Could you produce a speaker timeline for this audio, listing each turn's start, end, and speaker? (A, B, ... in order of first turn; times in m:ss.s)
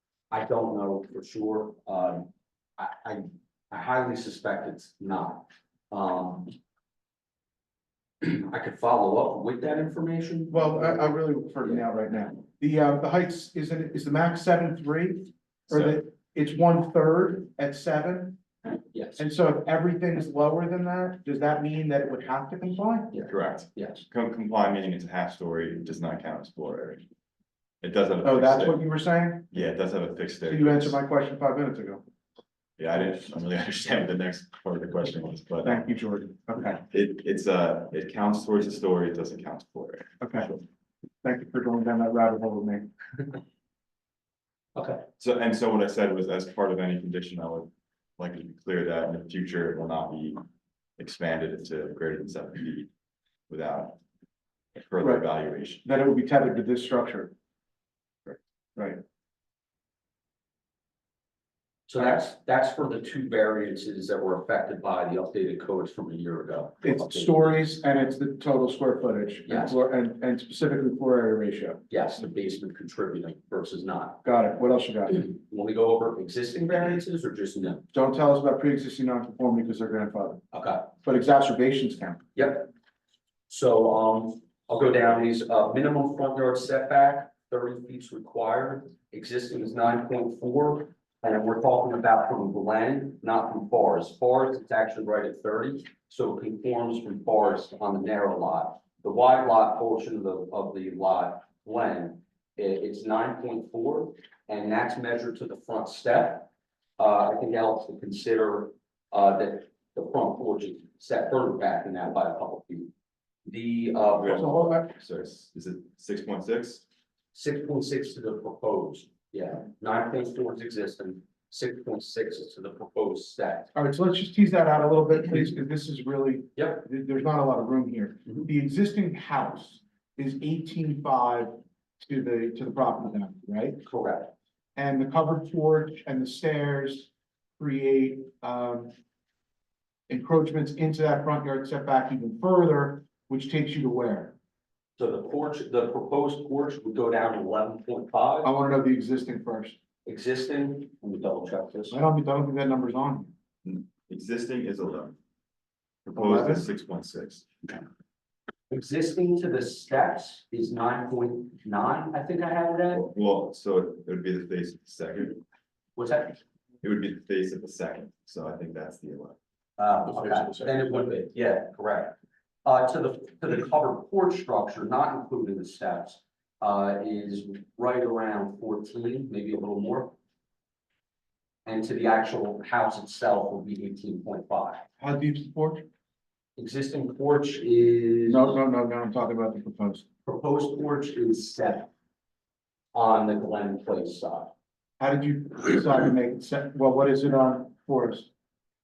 0:00.3-0:06.5 A
0:08.2-0:11.8 A
0:10.5-0:18.4 B
0:15.7-0:16.0 C
0:18.9-0:19.2 A
0:19.2-0:23.1 B
0:23.1-0:24.1 A
0:23.3-0:27.0 C
0:27.8-0:28.8 C
0:28.2-0:29.5 B
0:29.5-0:31.0 C
0:30.4-0:32.0 B
0:32.8-0:35.9 C
0:35.6-0:36.8 B
0:36.9-0:40.6 C
0:40.2-0:40.5 B
0:41.2-0:42.9 B
0:44.7-0:45.0 A
0:45.2-0:50.4 C
0:51.0-0:52.9 C
0:53.5-0:54.0 C
0:54.8-0:55.8 C
0:55.8-0:57.3 B
0:58.7-0:59.0 B
1:01.9-1:07.6 A
1:02.0-1:02.2 B
1:06.8-1:11.8 B
1:09.4-1:09.8 A
1:11.9-1:14.2 A
1:14.2-1:15.2 B
1:15.1-1:17.8 A
1:17.9-1:20.4 B
1:20.5-1:20.9 A
1:21.0-1:22.2 B
1:22.3-1:22.7 A
1:23.5-1:52.9 A
1:53.4-1:54.5 A
1:54.2-1:56.8 C
1:54.2-1:54.9 B
1:57.3-2:03.7 A
2:03.7-2:13.8 B
2:06.6-2:06.9 A
2:13.8-2:14.3 A
2:14.8-2:18.9 B
2:20.1-2:24.3 B
2:25.0-2:28.5 A
2:28.4-2:29.8 B
2:30.0-2:32.0 A
2:31.9-2:33.3 B
2:33.6-2:35.2 C
2:36.1-2:37.5 C
2:36.1-2:36.6 B
2:38.7-2:43.1 A
2:42.9-2:45.4 C
2:46.0-2:46.4 A
2:46.8-2:49.4 C
2:49.8-3:00.2 A
2:50.1-2:50.9 B
3:01.6-3:04.8 A
3:05.0-3:05.9 B
3:06.6-3:08.6 A
3:08.3-3:10.1 B
3:10.2-3:11.9 A
3:12.9-3:14.5 A
3:15.0-3:18.3 B